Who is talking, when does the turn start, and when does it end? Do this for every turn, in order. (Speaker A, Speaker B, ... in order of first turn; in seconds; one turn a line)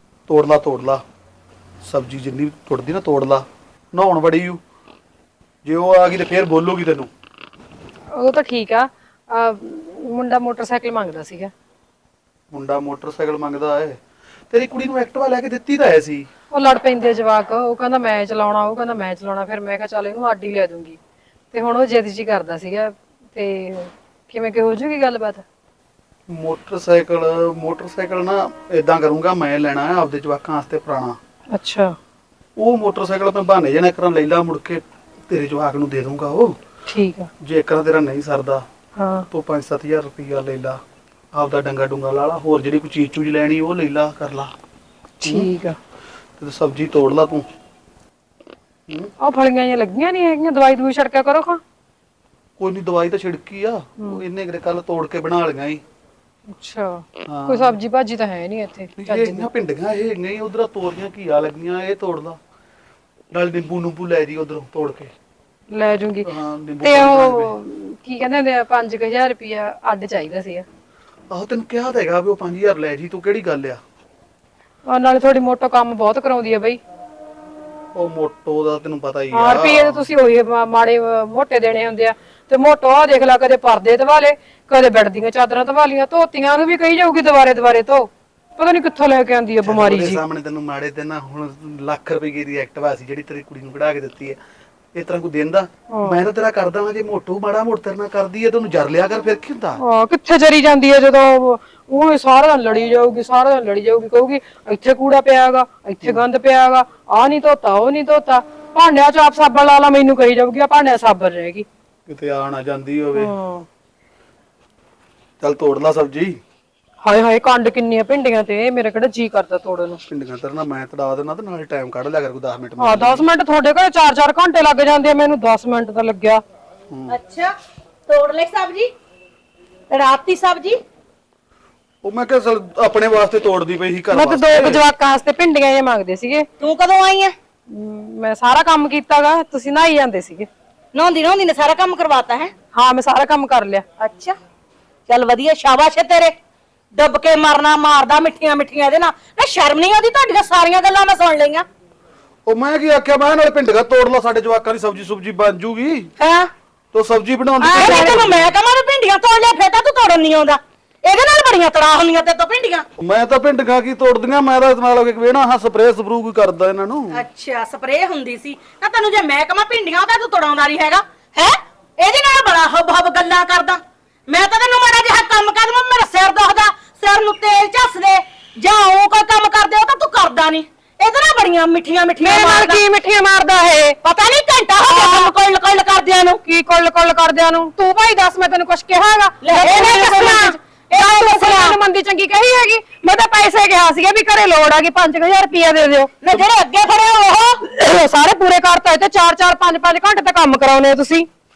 Speaker A: 0.3-1.0
Speaker A: 1.8-4.6
Speaker A: 5.7-7.1
Speaker B: 8.2-11.5
Speaker A: 12.5-14.0
Speaker A: 14.5-16.3
Speaker B: 16.5-21.0
Speaker B: 21.5-25.4
Speaker A: 26.3-31.2
Speaker B: 31.5-31.9
Speaker A: 32.6-36.5
Speaker B: 36.9-37.3
Speaker A: 37.4-38.6
Speaker B: 39.0-39.3
Speaker A: 39.3-40.8
Speaker A: 41.3-44.5
Speaker B: 45.2-45.8
Speaker A: 45.2-45.5
Speaker A: 46.4-47.5
Speaker B: 49.2-51.6
Speaker A: 52.6-55.8
Speaker B: 56.6-59.5
Speaker A: 57.3-57.8
Speaker A: 59.0-62.4
Speaker A: 63.3-65.1
Speaker B: 65.7-66.3
Speaker A: 66.2-67.6
Speaker B: 66.8-70.7
Speaker A: 71.3-73.8
Speaker B: 74.9-76.8
Speaker A: 78.0-80.1
Speaker B: 79.3-90.2
Speaker A: 89.6-94.4
Speaker A: 95.0-99.8
Speaker B: 95.9-96.2
Speaker B: 99.8-111.7
Speaker A: 112.1-113.3
Speaker B: 113.2-113.7
Speaker A: 115.4-116.4
Speaker B: 117.0-120.0
Speaker A: 120.1-123.3
Speaker B: 122.8-126.4
Speaker C: 127.1-127.5
Speaker C: 128.1-128.9
Speaker C: 129.9-130.8
Speaker A: 132.0-134.8
Speaker B: 134.1-136.5
Speaker C: 136.6-137.3
Speaker B: 137.7-140.5
Speaker C: 140.9-142.5
Speaker B: 142.7-143.9
Speaker C: 144.0-144.4
Speaker C: 145.1-146.3
Speaker C: 147.0-151.7
Speaker A: 152.5-156.1
Speaker C: 156.2-156.5
Speaker A: 156.9-158.5
Speaker C: 157.6-162.8
Speaker B: 157.8-158.1
Speaker A: 163.0-167.2
Speaker C: 167.1-182.8
Speaker B: 182.2-184.0
Speaker C: 184.0-186.4
Speaker B: 184.9-185.3
Speaker B: 186.4-196.5
Speaker C: 189.4-191.8
Speaker C: 196.2-197.6
Speaker B: 197.6-201.3